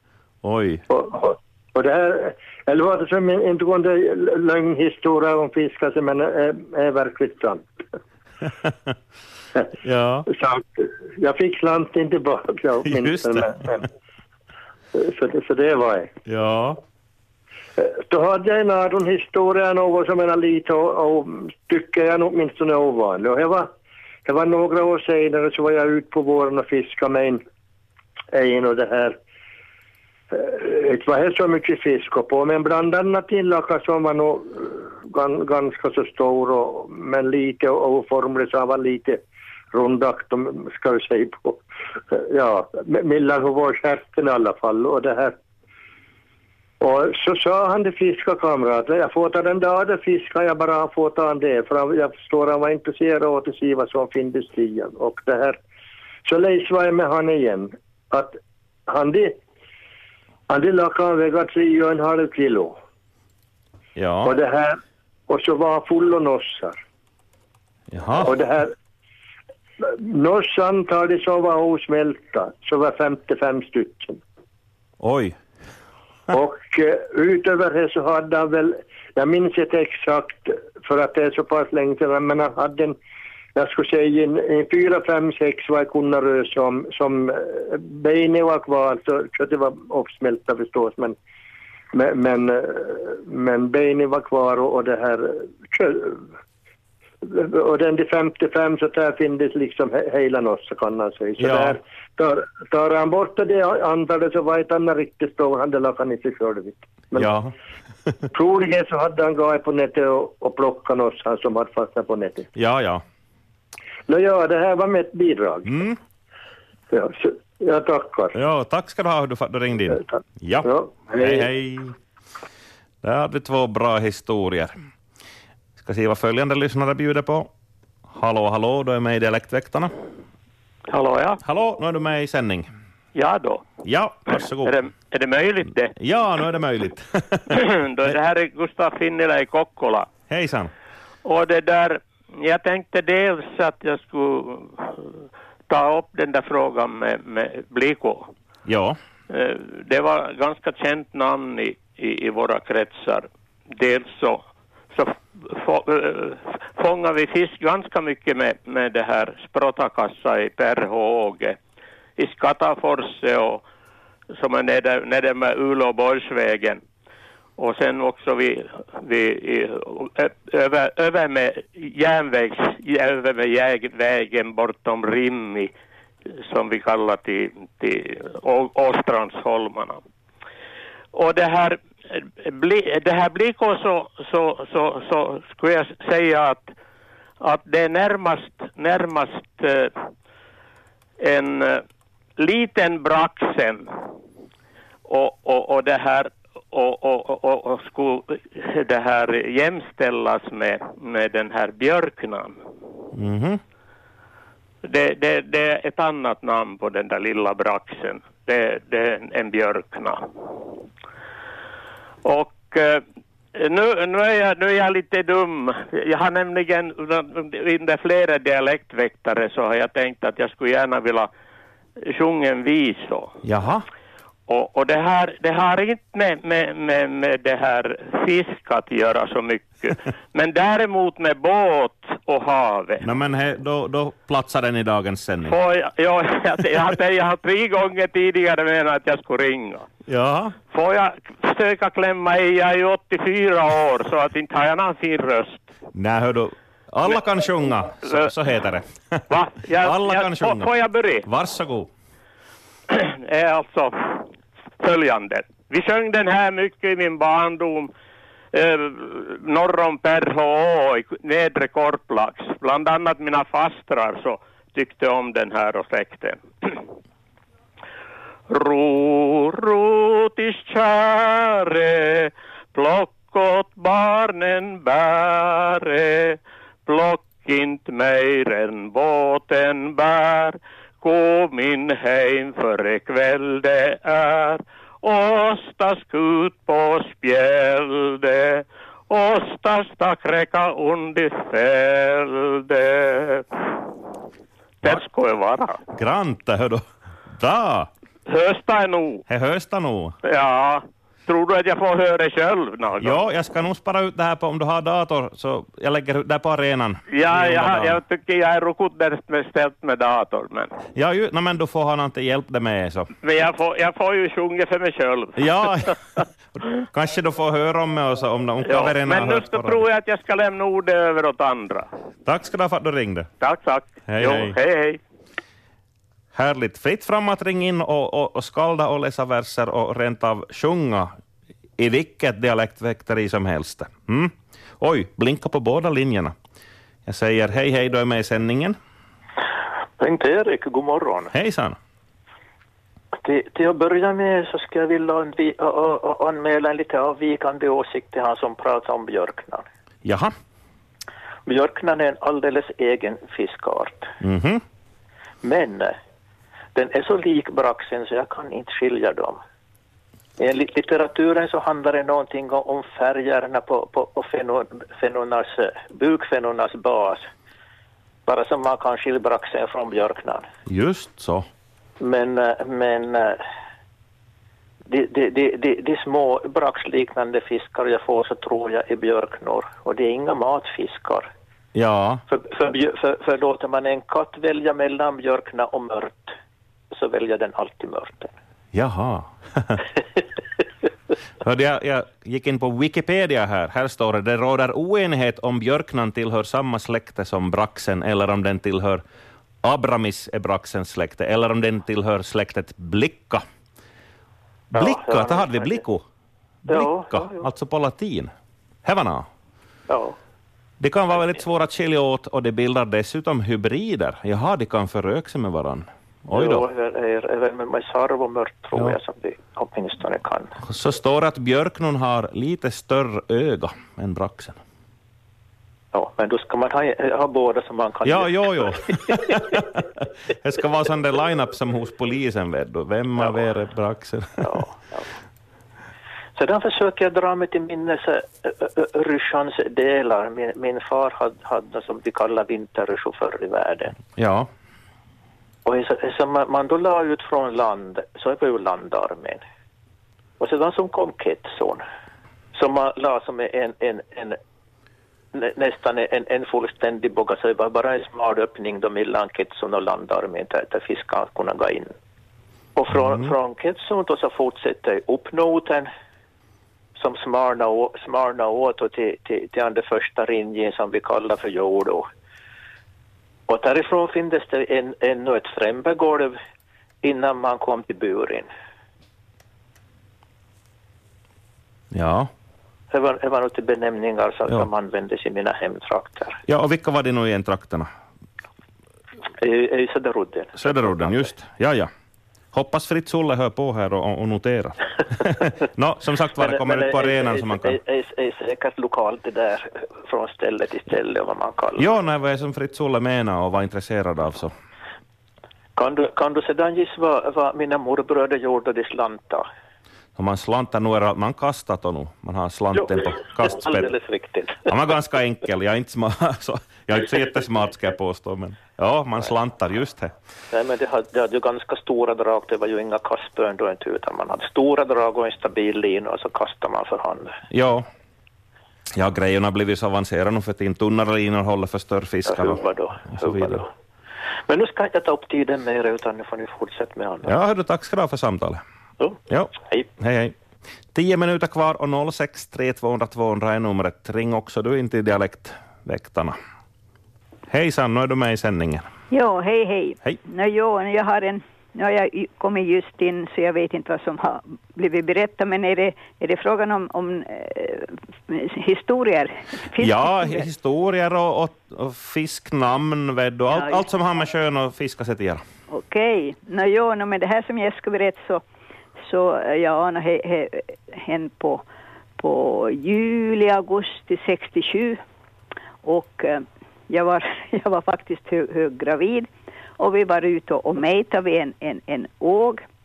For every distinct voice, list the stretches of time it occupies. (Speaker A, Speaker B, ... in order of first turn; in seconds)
Speaker A: 0.4-0.8, 9.8-10.3, 12.8-13.6, 16.2-16.8, 64.0-64.3, 67.9-68.3, 75.0-75.3, 101.4-101.8, 107.2-107.5, 112.5-113.0, 115.7-116.0, 118.3-121.9, 123.0-124.7, 125.8-127.5, 128.1-129.9, 131.4-132.7, 133.8-134.7, 136.0-137.4, 140.3-140.7, 148.7-149.0, 203.1-203.6, 223.4-223.8, 233.0-235.5, 240.1-240.6, 245.9-249.2, 249.8-250.7, 251.2-251.9, 295.9-296.8, 297.4-297.9, 299.3-300.1, 303.0-308.0, 310.9-313.1, 315.4-315.9, 316.9-319.8, 322.2-323.3, 324.1-324.6, 326.3-331.1, 331.8-336.3, 337.1-338.8, 341.3-341.8, 350.0-350.3, 354.2-354.6, 370.7-371.4, 381.7-382.2, 388.7-389.8, 391.4-399.0, 399.6-403.4, 404.7-406.0, 406.7-408.3, 408.8-409.3, 410.8-416.6, 420.6-424.6, 428.1-434.4, 444.1-444.5, 481.9-482.3, 486.5-487.9, 490.6-491.9, 492.5-497.7, 501.8-504.5, 510.1-513.9, 514.7-520.1, 527.5-527.9, 529.0-533.6, 537.3-538.6, 539.3-540.3, 540.9-546.4, 547.5-548.9, 559.8-565.4
Speaker B: 0.9-7.6, 10.3-13.9, 14.9-16.1, 17.8-23.7, 24.2-27.4, 28.3-29.2, 30.3-39.2, 39.7-45.4, 46.8-55.6, 56.2-59.4, 60.5-62.8, 64.2-64.8, 65.3-66.8, 68.2-68.7, 69.8-74.2, 76.3-82.9, 83.5-91.2, 91.9-96.3, 97.2-107.3, 108.3-112.5, 114.1-115.7, 116.9-118.3, 120.6-121.5
Speaker C: 130.9-131.4, 133.1-133.6, 134.6-135.9, 137.5-140.1, 141.2-145.1, 145.7-148.3, 149.3-161.6, 162.2-163.6, 164.3-166.8, 167.6-175.7, 176.3-180.0, 181.1-186.7, 187.4-189.9, 191.2-191.8, 192.4-193.9, 195.1-202.6, 204.8-210.2, 212.2-213.0, 213.5-221.3, 222.0-223.4, 224.5-233.1, 235.4-239.9, 240.7-245.6, 248.0-248.3, 249.3-251.3, 252.9-254.2, 254.8-257.9, 258.5-266.8, 268.5-293.8, 294.8-295.8, 298.2-299.2, 300.2-303.2, 307.1-310.7, 313.2-316.2, 318.6-321.9, 323.4-325.0
Speaker D: 340.0-341.3, 343.2-349.6, 351.4-354.1, 355.4-355.9, 356.7-359.4, 360.4-367.2, 368.2-370.5, 372.0-373.4, 374.9-381.3, 382.3-386.3, 386.9-388.3, 404.7-405.8, 406.7-407.5, 409.9-410.2, 416.3-420.5, 425.9-429.4, 433.2-433.4, 434.4-435.1, 436.4-444.0, 445.6-449.4, 450.4-451.8, 452.5-454.4, 455.3-461.9, 462.8-465.9, 466.9-472.1, 473.5-476.4, 477.0-478.5, 482.9-486.4, 489.4-491.3, 496.3-501.9, 505.8-509.4, 512.8-514.7, 520.5-527.3, 532.3-533.7, 534.5-537.3, 539.0-539.9
Speaker E: 549.1-560.5, 563.5-563.9, 565.7-568.4, 569.0-571.6, 572.2-575.0, 575.8-582.6